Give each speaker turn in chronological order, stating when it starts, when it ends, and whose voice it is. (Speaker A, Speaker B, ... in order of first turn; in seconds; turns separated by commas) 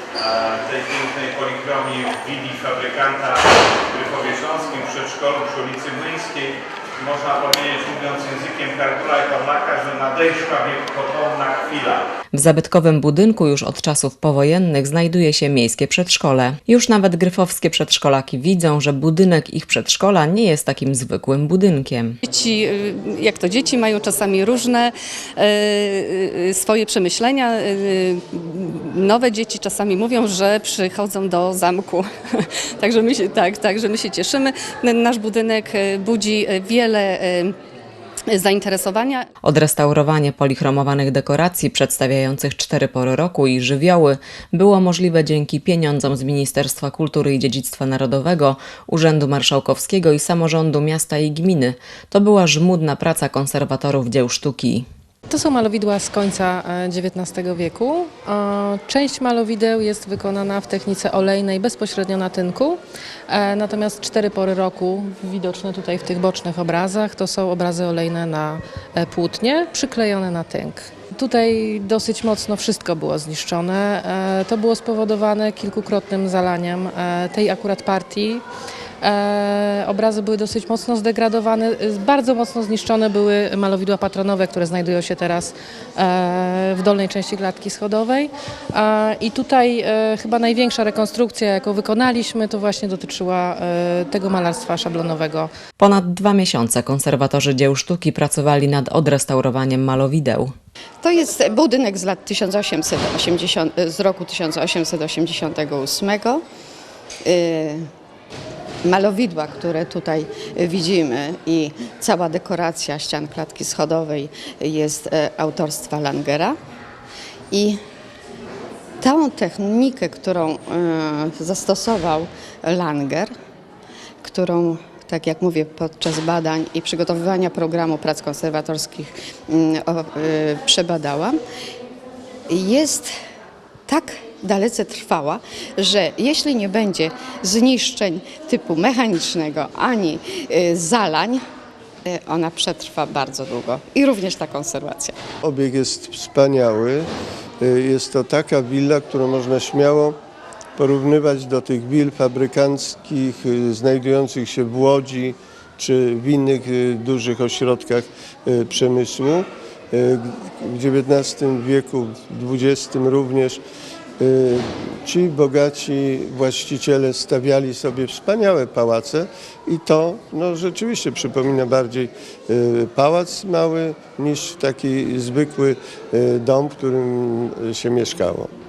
Speaker A: 0.2-12.0, Speaker B: 12.3-22.2, Speaker C: 22.2-37.5, Speaker C: 38.3-39.3, Speaker B: 39.4-54.8, Speaker D: 55.3-78.4, Speaker D: 79.0-95.5, Speaker B: 95.8-100.5, Speaker E: 101.0-106.4, Speaker E: 107.2-107.8, Speaker E: 108.8-116.5, Speaker E: 117.5-117.8, Speaker E: 119.0-123.3, Speaker E: 124.2-131.3, Speaker E: 132.5-133.1, Speaker E: 133.9-141.4, Speaker E: 142.0-145.2, Speaker F: 145.4-150.2, Speaker F: 150.8-163.6, Speaker F: 164.2-178.5